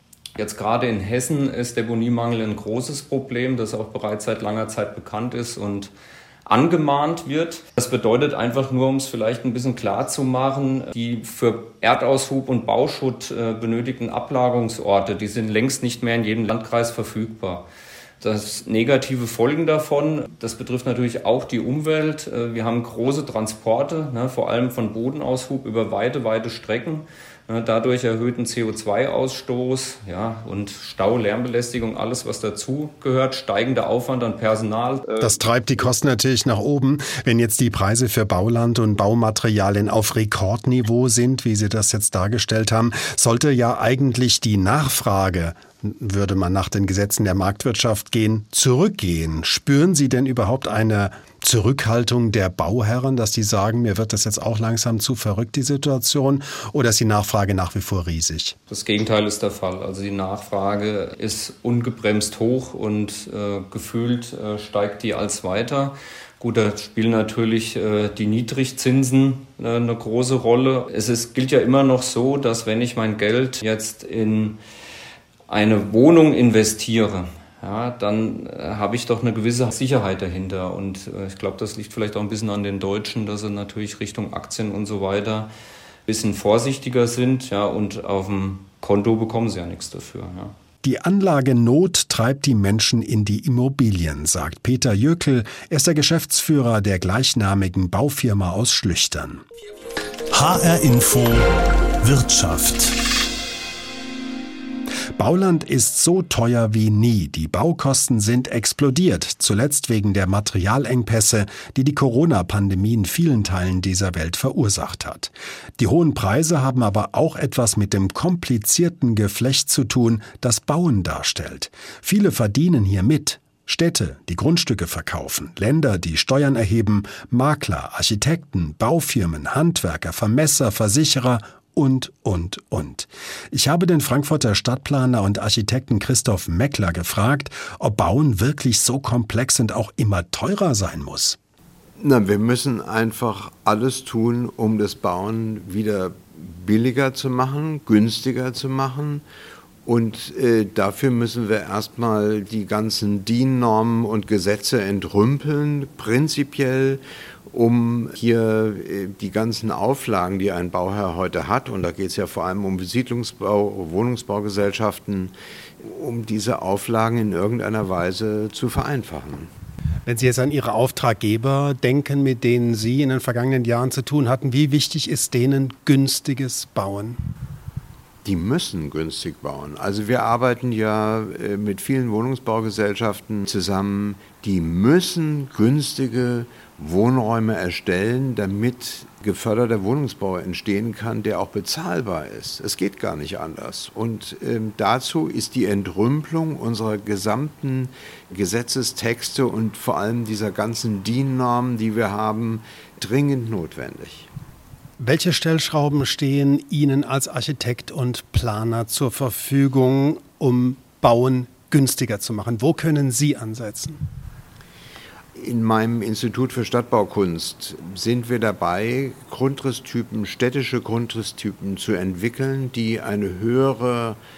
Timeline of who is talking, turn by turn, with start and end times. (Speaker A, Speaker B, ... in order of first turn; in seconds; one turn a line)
Speaker A: 0.4-5.9
Speaker A: 6.5-17.7
Speaker A: 18.2-35.4
Speaker B: 35.2-58.5
Speaker A: 58.7-74.6
Speaker A: 75.5-85.5
Speaker A: 86.1-90.5
Speaker B: 90.8-99.4
Speaker B: 100.3-103.0
Speaker B: 105.2-141.4
Speaker C: 142.0-149.2
Speaker C: 149.9-169.5
Speaker B: 170.1-177.2
Speaker C: 178.2-204.3
Speaker B: 205.0-214.0
Speaker C: 215.3-224.2